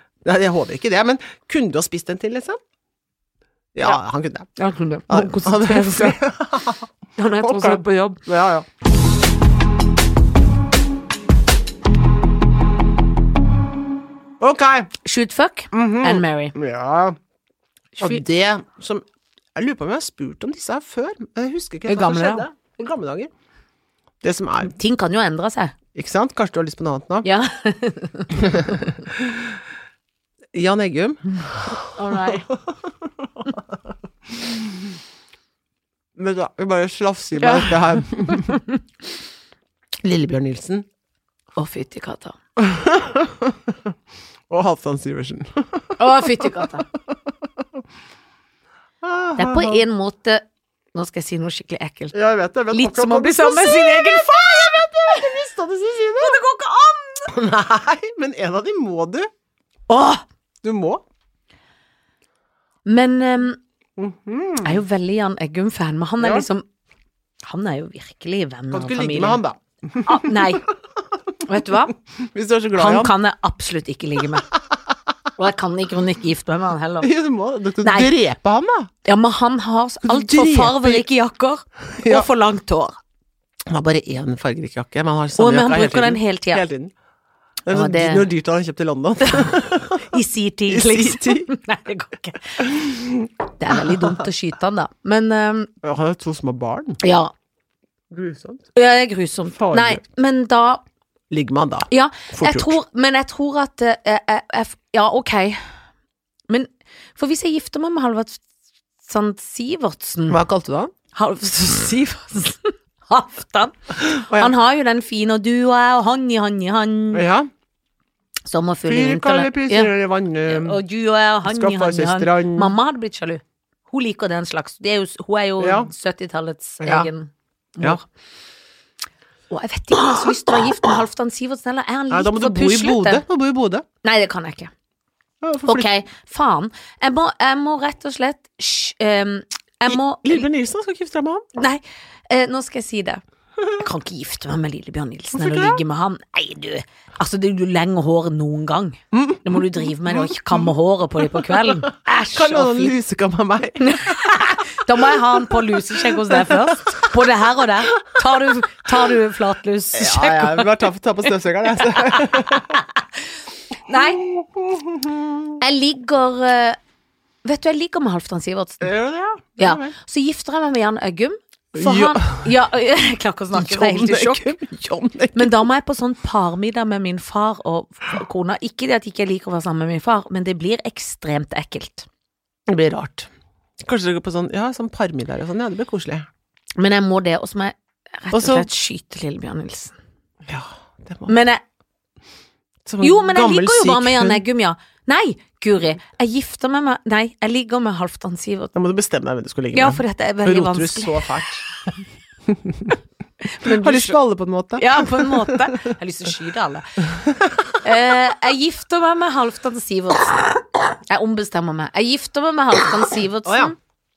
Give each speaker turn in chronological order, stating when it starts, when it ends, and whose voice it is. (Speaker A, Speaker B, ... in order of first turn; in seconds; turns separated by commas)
Speaker A: 0.2-2.6, Speaker A: 3.7-4.5, Speaker B: 4.6-6.2, Speaker A: 5.1-8.7, Speaker B: 7.2-8.2, Speaker A: 14.4-14.9, Speaker B: 15.0-16.5, Speaker A: 15.7-17.2, Speaker A: 18.0-19.0, Speaker A: 19.6-23.3, Speaker B: 21.9-22.4, Speaker A: 24.2-24.7, Speaker B: 24.6-25.7, Speaker A: 25.9-27.3, Speaker B: 27.2-29.0, Speaker A: 28.4-29.6, Speaker A: 30.5-33.8, Speaker B: 31.9-32.5, Speaker A: 34.3-34.8, Speaker A: 36.1-38.6, Speaker B: 37.4-38.8, Speaker A: 40.0-40.9, Speaker B: 41.5-42.4, Speaker A: 42.6-43.9, Speaker A: 44.5-47.6, Speaker B: 46.0-46.9, Speaker A: 49.0-49.8, Speaker B: 49.4-50.4, Speaker B: 50.9-52.1, Speaker A: 52.1-56.4, Speaker B: 52.7-54.3, Speaker B: 56.2-57.3, Speaker A: 57.3-59.3, Speaker B: 59.9-60.2, Speaker A: 60.6-61.0, Speaker B: 62.9-63.6, Speaker A: 64.0-64.8, Speaker B: 64.6-66.6, Speaker A: 66.2-66.5, Speaker B: 67.4-69.4, Speaker A: 68.7-70.6, Speaker B: 70.0-70.7, Speaker B: 71.4-71.9, Speaker A: 72.0-73.1, Speaker B: 72.8-74.5, Speaker B: 75.4-77.1, Speaker A: 77.0-78.9, Speaker B: 77.8-78.1, Speaker B: 79.0-83.0, Speaker A: 80.0-81.0, Speaker A: 82.0-82.3, Speaker A: 83.7-86.9, Speaker B: 85.4-86.6, Speaker A: 87.7-91.5, Speaker B: 87.7-88.2, Speaker B: 89.2-92.7, Speaker A: 92.6-94.2, Speaker B: 93.6-95.7, Speaker A: 95.8-97.0, Speaker B: 97.0-97.3, Speaker A: 98.1-98.6, Speaker B: 98.7-100.8, Speaker A: 99.5-100.0, Speaker A: 101.3-102.8, Speaker B: 101.9-105.7, Speaker B: 106.5-108.4, Speaker B: 109.0-110.4, Speaker A: 110.3-110.9, Speaker B: 111.1-117.2, Speaker A: 114.0-114.5, Speaker A: 117.1-117.5, Speaker B: 118.5-119.9, Speaker A: 118.8-120.8, Speaker B: 120.5-128.0, Speaker A: 121.4-122.7, Speaker A: 125.6-125.9, Speaker A: 126.8-127.1, Speaker B: 129.5-133.2, Speaker A: 129.9-130.6, Speaker A: 132.1-133.8, Speaker B: 134.0-134.7, Speaker A: 135.4-135.9, Speaker B: 135.7-140.5, Speaker A: 139.9-141.4, Speaker B: 141.6-143.2, Speaker B: 143.8-152.9, Speaker A: 145.3-145.8, Speaker A: 149.1-150.7, Speaker A: 151.3-154.3, Speaker B: 153.8-160.7, Speaker A: 155.0-157.2, Speaker A: 158.2-158.6, Speaker A: 159.9-162.8, Speaker B: 161.8-163.1, Speaker B: 163.8-164.2, Speaker A: 163.9-165.6, Speaker B: 165.6-166.8, Speaker B: 167.4-168.9, Speaker A: 168.8-169.9, Speaker B: 169.6-174.5, Speaker A: 171.7-172.6, Speaker A: 173.5-175.6, Speaker B: 175.3-182.1, Speaker A: 182.7-183.3, Speaker A: 183.8-186.3, Speaker B: 186.8-189.9, Speaker A: 188.3-188.7, Speaker A: 190.4-191.3, Speaker B: 191.3-191.6, Speaker A: 192.8-194.4, Speaker B: 193.0-198.7, Speaker A: 198.7-201.7, Speaker B: 199.7-201.4, Speaker A: 202.5-203.0, Speaker B: 203.4-204.2, Speaker A: 203.6-205.9, Speaker B: 204.8-207.1, Speaker A: 207.0-207.8, Speaker B: 207.8-213.8, Speaker A: 213.4-213.7